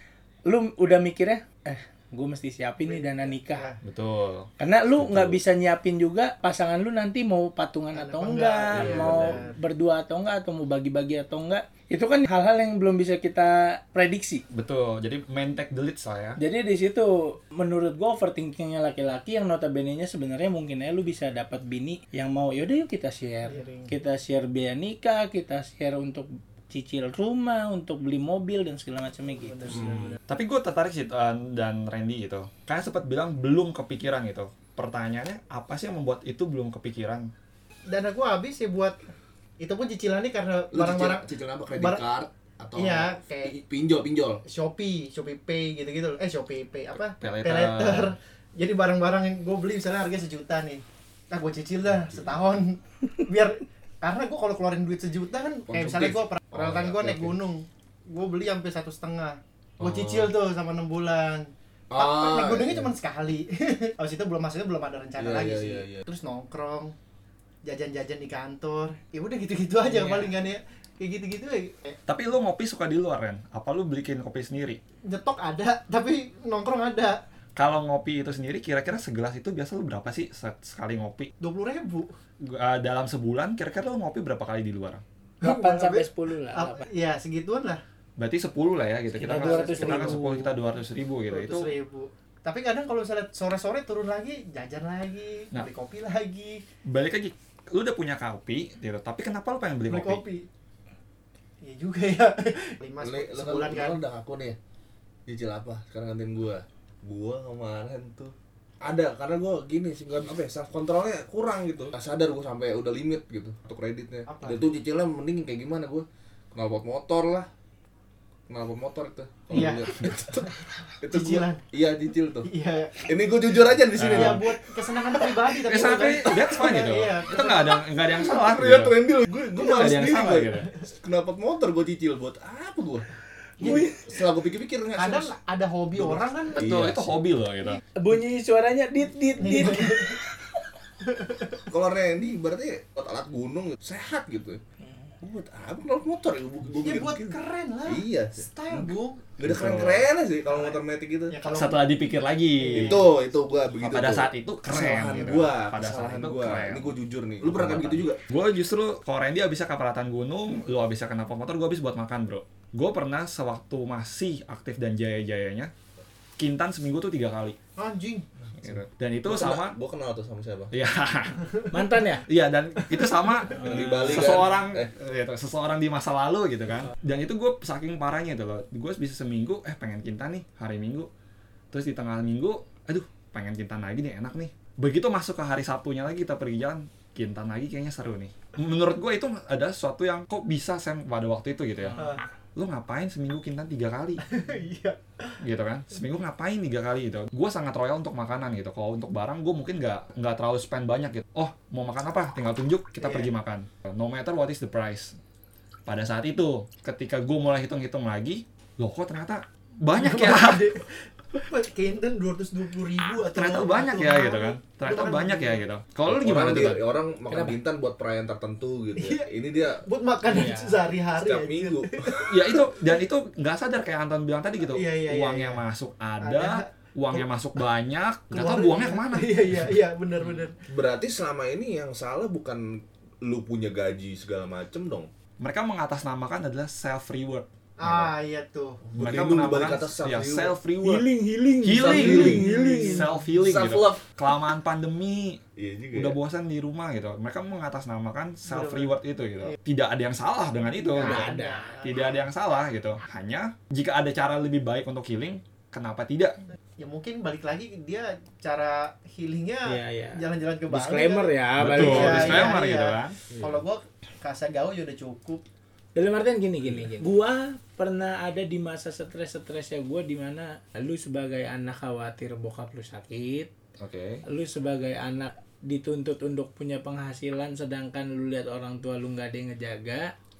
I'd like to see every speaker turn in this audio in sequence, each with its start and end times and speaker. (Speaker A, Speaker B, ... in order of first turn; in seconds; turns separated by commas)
Speaker A: 0.5-3.7, Speaker B: 2.8-3.8, Speaker C: 3.8-5.4, Speaker A: 4.6-14.4, Speaker B: 7.9-9.6, Speaker C: 8.7-9.4, Speaker C: 14.5-16.4, Speaker A: 16.4-29.8, Speaker B: 23.4-23.9, Speaker B: 29.2-30.2, Speaker D: 29.7-30.1, Speaker C: 30.3-37.3, Speaker B: 37.9-39.0, Speaker B: 39.6-42.0, Speaker D: 40.7-44.4, Speaker B: 42.8-43.5, Speaker B: 44.4-66.9, Speaker C: 47.2-48.1, Speaker D: 52.1-52.5, Speaker D: 55.7-57.4, Speaker D: 61.9-62.9, Speaker D: 65.2-66.0, Speaker B: 67.6-72.0, Speaker A: 69.9-70.4, Speaker C: 72.1-74.8, Speaker B: 75.0-77.2, Speaker C: 77.6-81.3, Speaker B: 81.4-82.1, Speaker C: 82.4-85.0, Speaker A: 85.4-86.9, Speaker B: 85.4-87.8, Speaker C: 88.2-91.7, Speaker A: 89.2-90.6, Speaker B: 89.2-90.2, Speaker B: 91.3-96.6, Speaker C: 96.9-100.2, Speaker B: 99.9-100.5, Speaker B: 101.6-104.0, Speaker D: 103.0-104.6, Speaker D: 105.3-117.5, Speaker B: 114.3-114.6, Speaker D: 118.5-122.5, Speaker B: 119.5-120.5, Speaker B: 121.1-121.6, Speaker B: 122.4-127.9, Speaker D: 123.0-124.6, Speaker C: 124.0-124.4, Speaker C: 125.6-130.7, Speaker D: 128.0-133.1, Speaker B: 130.4-130.6, Speaker A: 133.6-134.1, Speaker D: 133.6-135.4, Speaker B: 134.9-136.7, Speaker D: 135.9-137.2, Speaker C: 136.5-137.8, Speaker A: 137.9-140.4, Speaker B: 139.4-140.2, Speaker B: 141.1-141.4, Speaker D: 141.7-144.6, Speaker D: 145.2-151.3, Speaker B: 146.8-149.4, Speaker C: 149.4-150.1, Speaker B: 150.4-151.9, Speaker C: 151.5-153.0, Speaker B: 152.6-153.1, Speaker D: 152.7-158.2, Speaker C: 153.8-165.7, Speaker C: 166.4-167.6, Speaker B: 167.8-168.2, Speaker C: 168.6-169.8, Speaker D: 169.3-170.7, Speaker C: 170.7-171.6, Speaker A: 171.7-172.3, Speaker C: 172.3-181.1, Speaker A: 173.6-174.2, Speaker D: 173.6-174.9, Speaker C: 181.7-192.0, Speaker A: 191.8-192.2, Speaker B: 192.0-192.2, Speaker C: 192.6-194.2, Speaker B: 194.3-195.3, Speaker C: 195.4-205.2, Speaker B: 203.0-203.3, Speaker C: 205.9-210.7, Speaker B: 210.0-215.7, Speaker C: 213.3-216.8, Speaker D: 216.1-219.8, Speaker A: 217.3-217.6, Speaker B: 218.9-222.6, Speaker A: 220.3-220.8, Speaker D: 221.1-222.3, Speaker C: 222.3-229.4, Speaker B: 224.7-225.6, Speaker B: 226.2-227.3, Speaker B: 228.3-230.5, Speaker D: 230.7-235.1, Speaker C: 235.4-237.5, Speaker B: 237.8-239.0, Speaker D: 238.8-240.6, Speaker C: 239.0-241.1, Speaker A: 240.8-243.1, Speaker C: 241.6-245.4, Speaker D: 241.9-244.1, Speaker D: 245.6-246.2, Speaker C: 245.9-256.4, Speaker B: 248.5-248.9, Speaker B: 250.8-252.2, Speaker A: 250.9-251.7, Speaker B: 256.8-265.4, Speaker A: 259.7-262.5, Speaker C: 261.6-263.2, Speaker D: 263.3-263.6, Speaker A: 265.9-273.5, Speaker C: 273.8-274.2, Speaker A: 274.3-280.1